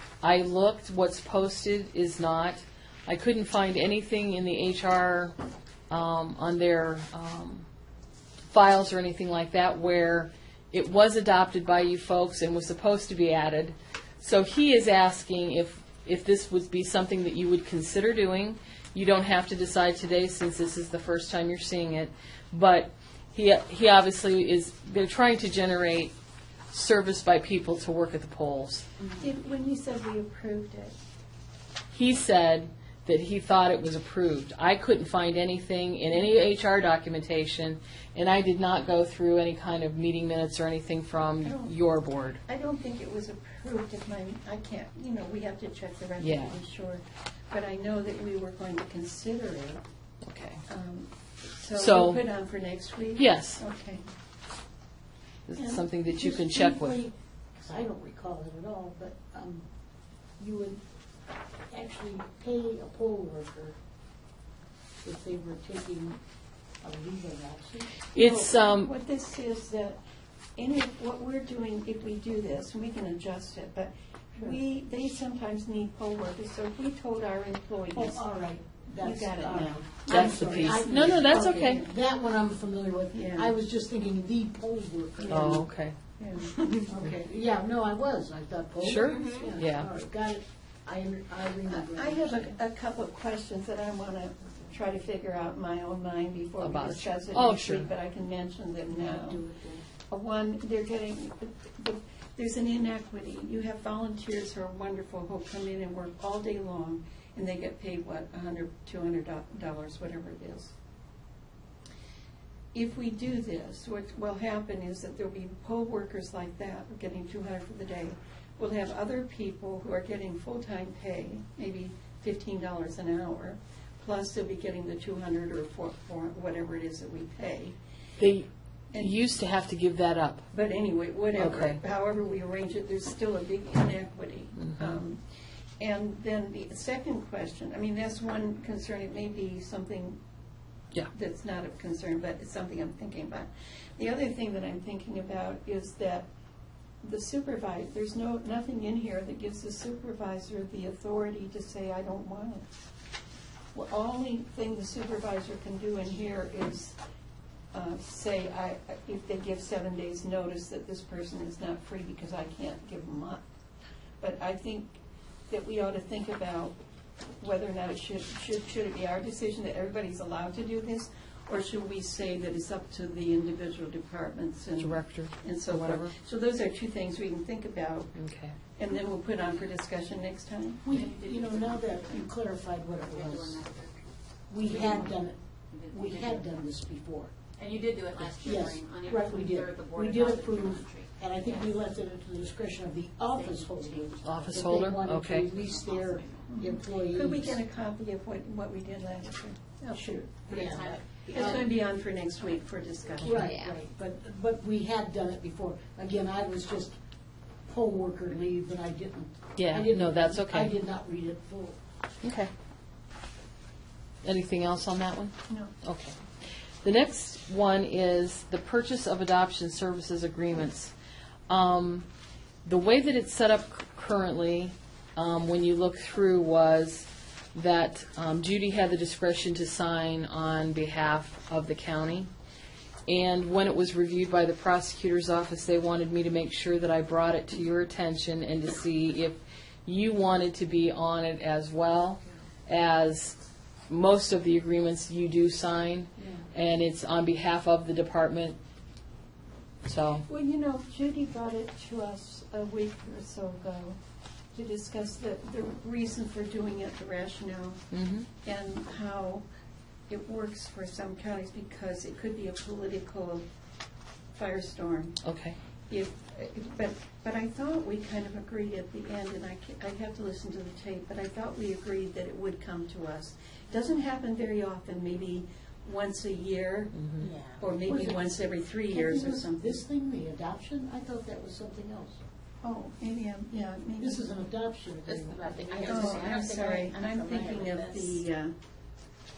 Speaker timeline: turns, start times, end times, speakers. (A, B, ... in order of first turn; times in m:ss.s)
0:00.2-0:05.3 A
0:05.9-0:07.7 A
0:08.5-0:26.1 A
0:26.7-0:28.9 A
0:29.2-0:31.0 B
0:31.9-0:42.4 A
0:41.4-0:41.8 B
0:42.4-0:49.8 B
0:46.2-0:46.6 A
0:50.2-0:50.6 A
0:50.7-0:54.0 B
0:51.8-0:52.2 A
0:53.2-0:53.6 A
0:55.5-0:57.0 A
0:55.6-0:59.7 C
1:00.4-1:00.8 C
1:01.7-1:03.8 C
1:05.0-1:06.2 C
1:06.8-1:07.9 C
1:08.1-1:08.9 A
1:08.2-1:10.0 B
1:10.6-1:18.2 B
1:17.9-1:25.6 C
1:19.0-1:21.9 B
1:20.1-1:21.8 A
1:23.1-1:23.5 B
1:25.2-1:25.6 B
1:25.3-1:26.0 A
1:26.2-1:26.9 B
1:26.9-1:32.6 C
1:28.8-1:29.9 A
1:29.0-1:29.5 D
1:31.7-1:39.4 B
1:36.6-1:37.9 A
1:38.9-1:39.8 C
1:40.1-1:50.7 B
1:52.7-2:07.8 B
2:08.2-2:10.5 A
2:10.5-2:15.2 B
2:11.4-2:11.8 A
2:14.6-2:15.0 A
2:15.8-2:20.2 B
2:21.1-2:26.3 B
2:27.0-2:32.7 B
2:33.7-2:37.0 B
2:37.7-2:43.4 B
2:44.2-2:45.0 B
2:45.5-2:46.8 B
2:47.4-2:58.2 B
2:54.8-2:56.1 A
2:58.2-2:58.6 A
2:58.8-3:00.9 B
3:00.8-3:03.6 C
3:00.9-3:02.3 D
3:03.0-3:04.0 D
3:04.5-3:07.3 C
3:04.6-3:06.5 D
3:07.6-3:11.7 D
3:08.4-3:17.6 C
3:13.3-3:14.7 D
3:14.2-3:15.5 A
3:15.3-3:16.6 D
3:16.5-3:20.0 B
3:19.9-3:21.6 C
3:20.5-3:21.7 D
3:21.3-3:23.6 B
3:23.2-3:27.0 C
3:27.7-3:31.8 C
3:29.6-3:30.7 A
3:32.2-3:32.5 A
3:34.2-3:36.2 A
3:36.8-3:40.9 A
3:41.5-3:42.1 A
3:42.6-3:52.3 A
3:53.1-4:03.4 A
4:03.9-4:08.6 A
4:06.2-4:06.4 C
4:09.8-4:10.3 A
4:10.3-4:14.0 B
4:14.5-4:17.8 B
4:17.9-4:18.3 A
4:18.4-4:19.4 B
4:20.1-4:23.5 B
4:24.4-4:25.2 B
4:25.2-4:25.6 A
4:25.9-4:37.0 B
4:37.0-4:37.3 A
4:37.2-4:42.2 C
4:37.6-4:39.8 B
4:42.6-4:44.2 B
4:44.0-4:46.4 C
4:45.1-4:48.2 D
4:45.8-4:48.5 B